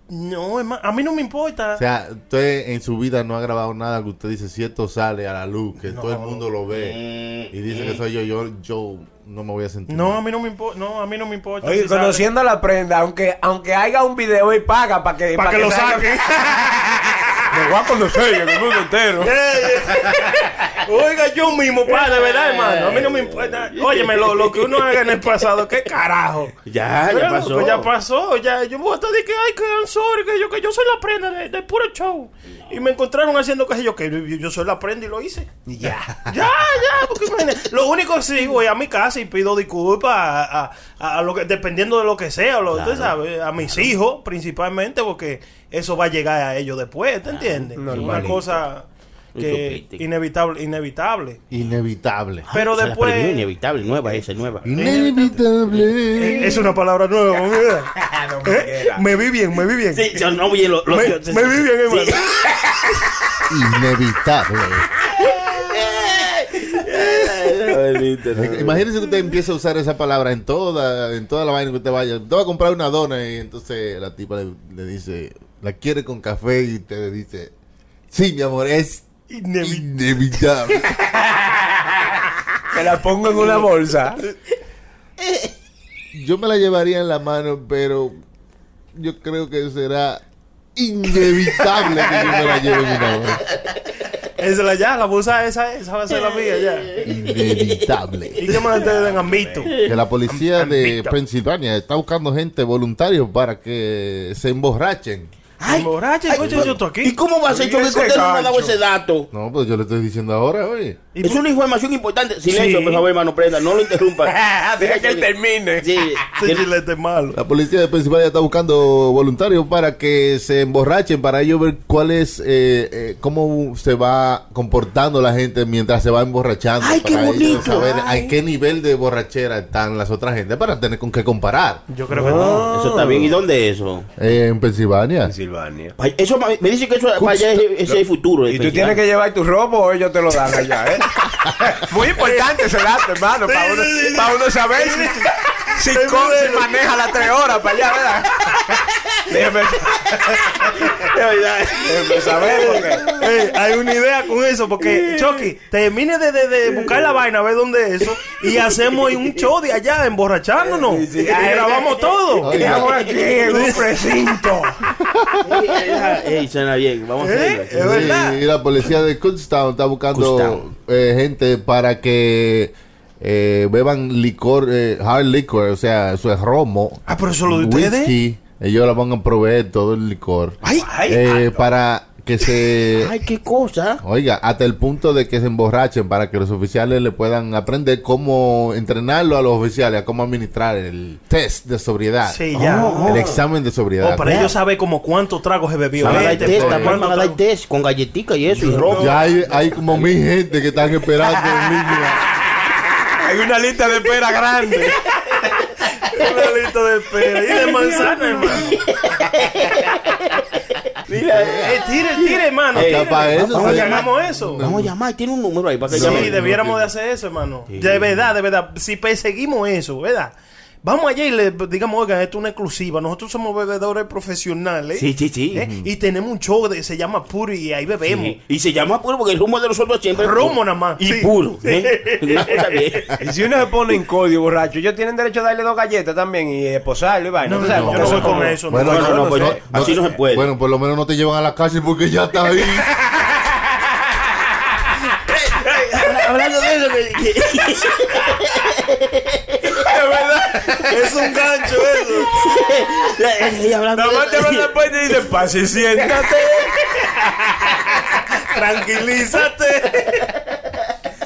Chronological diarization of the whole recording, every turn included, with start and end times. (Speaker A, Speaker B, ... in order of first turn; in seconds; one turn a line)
Speaker A: 0.1-1.8
Speaker B: 1.8-7.0
Speaker A: 5.9-6.5
Speaker C: 6.7-8.0
Speaker B: 7.5-10.2
Speaker A: 9.9-12.3
Speaker D: 11.6-19.3
Speaker A: 15.3-16.3
Speaker A: 19.2-26.5
Speaker C: 22.0-25.1
Speaker C: 26.7-27.9
Speaker A: 27.1-35.5
Speaker D: 35.7-36.2
Speaker A: 36.3-48.9
Speaker C: 42.7-43.2
Speaker C: 47.3-48.5
Speaker D: 47.8-48.4
Speaker C: 49.4-50.0
Speaker A: 49.4-51.4
Speaker B: 51.5-52.5
Speaker C: 52.5-55.1
Speaker A: 52.5-53.4
Speaker B: 54.6-56.6
Speaker A: 54.8-55.4
Speaker A: 56.2-57.9
Speaker D: 58.0-59.0
Speaker A: 58.5-60.1
Speaker C: 59.9-62.8
Speaker A: 60.9-62.3
Speaker B: 63.5-64.9
Speaker C: 65.1-68.8
Speaker B: 68.3-77.5
Speaker B: 78.1-79.1
Speaker A: 79.3-79.9
Speaker B: 79.6-81.0
Speaker D: 82.7-84.2
Speaker C: 85.2-85.5
Speaker B: 86.1-88.2
Speaker B: 89.0-90.2
Speaker B: 90.8-93.4
Speaker A: 94.4-96.9
Speaker C: 96.1-97.9
Speaker B: 97.0-98.6
Speaker A: 98.4-99.7
Speaker D: 98.9-99.7
Speaker C: 99.7-100.0
Speaker B: 99.8-105.3
Speaker A: 100.3-101.2
Speaker C: 105.6-109.3
Speaker A: 105.7-107.2
Speaker B: 106.4-106.8
Speaker D: 107.5-108.8
Speaker B: 109.3-111.0
Speaker A: 111.2-111.4
Speaker C: 111.2-115.3
Speaker A: 112.5-113.1
Speaker D: 114.2-116.2
Speaker C: 115.8-116.7
Speaker A: 116.4-117.4
Speaker B: 117.3-131.8
Speaker C: 126.8-128.1
Speaker A: 127.4-128.3
Speaker A: 131.9-132.7
Speaker D: 132.1-133.4
Speaker C: 132.2-134.1
Speaker B: 134.2-135.3
Speaker D: 135.2-135.9
Speaker C: 136.0-139.0
Speaker B: 137.2-137.7
Speaker D: 137.9-148.6
Speaker A: 142.1-142.6
Speaker A: 143.5-145.3
Speaker A: 145.8-146.7
Speaker D: 149.3-150.8
Speaker C: 150.8-153.3
Speaker D: 151.8-153.1
Speaker A: 153.2-162.6
Speaker C: 154.8-155.4
Speaker C: 158.5-159.2
Speaker D: 160.8-164.8
Speaker B: 162.4-162.9
Speaker C: 162.5-163.7
Speaker A: 163.5-163.8
Speaker B: 165.0-165.8
Speaker C: 165.4-168.2
Speaker A: 167.2-168.4
Speaker B: 167.8-183.1
Speaker C: 170.1-170.6
Speaker A: 177.1-178.2
Speaker D: 180.6-181.7
Speaker C: 183.0-184.0
Speaker B: 184.0-194.5
Speaker A: 192.3-193.1
Speaker C: 192.6-193.3
Speaker D: 193.1-193.4
Speaker A: 194.0-197.4
Speaker C: 194.2-194.5
Speaker C: 196.0-199.2
Speaker B: 196.1-197.0
Speaker A: 198.6-198.9
Speaker D: 198.6-199.4
Speaker B: 198.9-202.2
Speaker D: 203.2-205.0
Speaker A: 206.1-208.8
Speaker C: 207.4-210.4
Speaker C: 210.9-216.5
Speaker B: 211.1-211.8
Speaker A: 211.6-214.6
Speaker B: 212.7-214.9
Speaker B: 215.9-216.9
Speaker A: 215.9-228.4
Speaker C: 217.7-218.2
Speaker C: 224.9-225.7
Speaker B: 225.6-225.9
Speaker C: 228.1-233.2
Speaker A: 230.2-232.7
Speaker D: 233.2-240.1
Speaker A: 237.4-239.5
Speaker B: 237.5-242.9
Speaker C: 238.1-240.5
Speaker C: 245.3-249.8
Speaker D: 249.7-250.9
Speaker A: 250.9-252.3
Speaker C: 252.3-254.7
Speaker D: 253.9-256.7
Speaker C: 255.9-256.7
Speaker A: 258.5-260.2